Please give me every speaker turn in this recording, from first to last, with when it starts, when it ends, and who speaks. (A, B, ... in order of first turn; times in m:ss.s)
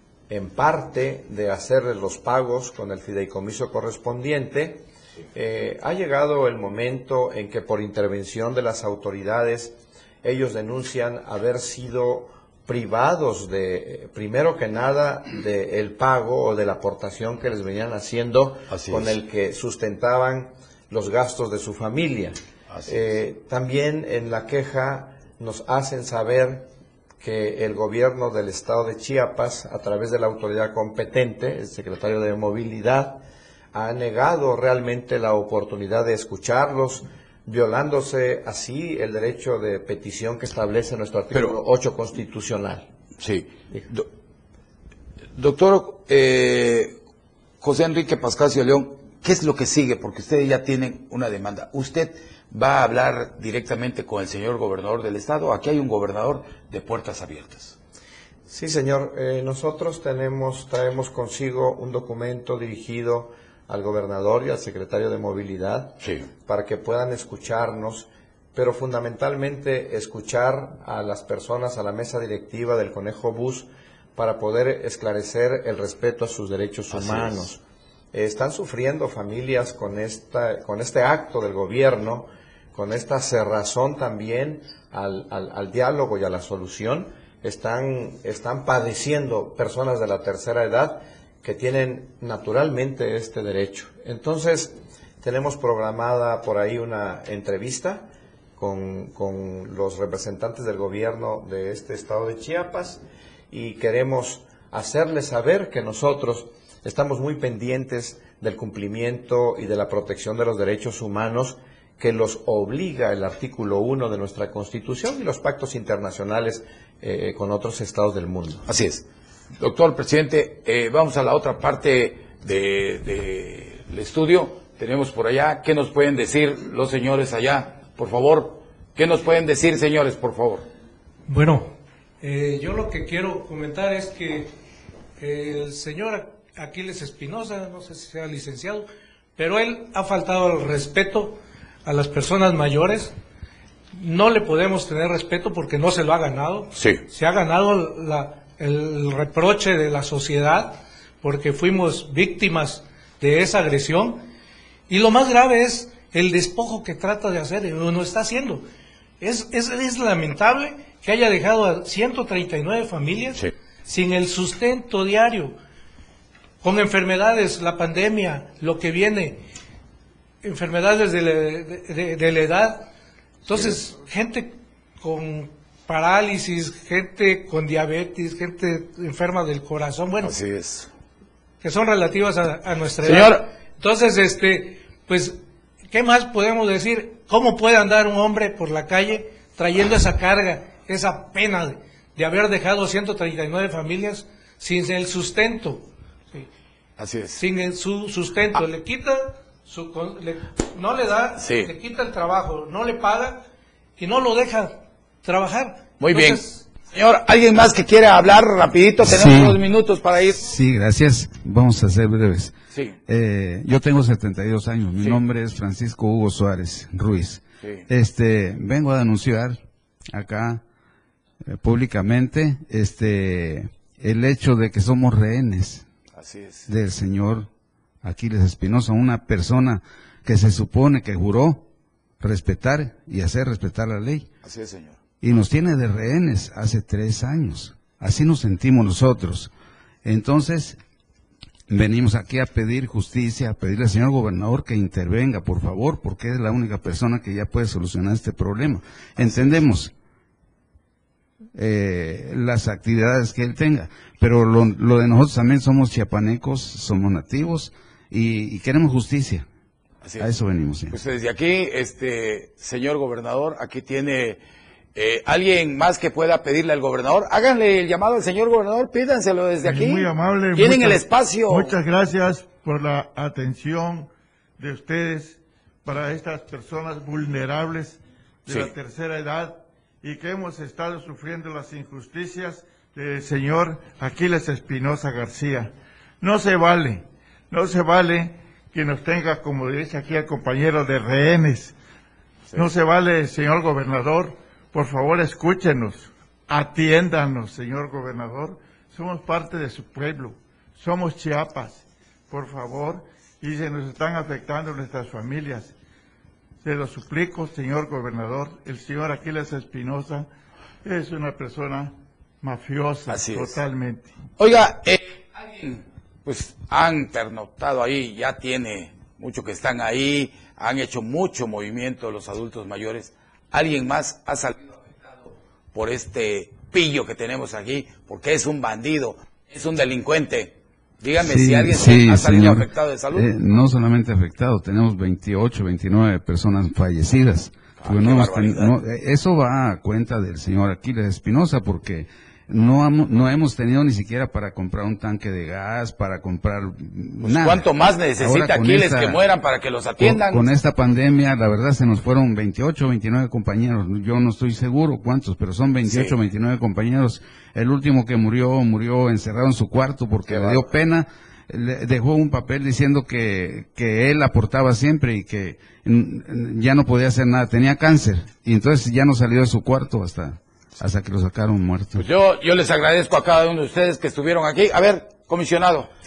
0:00.3-0:26.7 A
0:18.7-0:19.1 B
0:22.7-0:23.0 B
0:27.2-0:42.9 A
0:43.2-0:44.1 B
0:45.3-0:47.0 B
0:47.6-0:57.8 B
0:58.5-1:17.6 A
1:06.0-1:06.3 B
1:16.9-1:17.4 B
1:18.1-1:58.6 A
1:58.6-1:59.0 B
1:59.6-2:10.6 B
2:11.3-2:14.5 C
2:15.2-2:23.2 C
2:23.9-2:34.2 C
2:26.7-2:27.0 B
2:34.9-2:38.6 C
2:39.2-2:45.6 C
2:46.6-2:49.4 C
2:50.4-2:52.9 C
2:53.4-3:00.4 C
3:00.2-3:00.9 B
3:01.6-3:16.5 C
3:03.0-3:03.5 B
3:17.0-3:17.4 B
3:17.4-3:23.4 C
3:21.4-3:21.7 B
3:24.0-3:26.6 C
3:26.0-3:30.5 B
3:29.0-3:29.6 D
3:30.4-3:32.5 D
3:32.7-3:33.0 B
3:33.1-3:39.6 D
3:35.0-3:35.2 B
3:40.1-3:40.6 D
3:41.5-3:45.8 D
3:46.1-3:46.7 B
3:46.7-3:47.5 D
3:48.0-3:51.6 D
3:52.2-3:54.3 D
3:54.4-3:55.0 B
3:55.2-3:59.5 D
4:00.0-4:00.8 D
4:01.7-4:09.9 D
4:09.2-4:09.6 B
4:11.5-4:19.4 D
4:20.0-4:20.3 B
4:20.2-4:20.9 D
4:20.9-4:24.4 B
4:24.9-4:31.8 B
4:29.6-4:51.8 E
4:52.5-5:05.7 E
5:06.6-5:10.3 E
5:10.8-5:14.2 E
5:13.1-5:13.6 B
5:14.4-5:33.3 B
5:31.2-5:49.2 D
5:37.8-5:38.8 B
5:47.2-5:50.5 B
5:50.0-6:12.0 D
5:55.8-5:56.2 B
6:00.2-6:00.8 B
6:11.9-6:15.9 B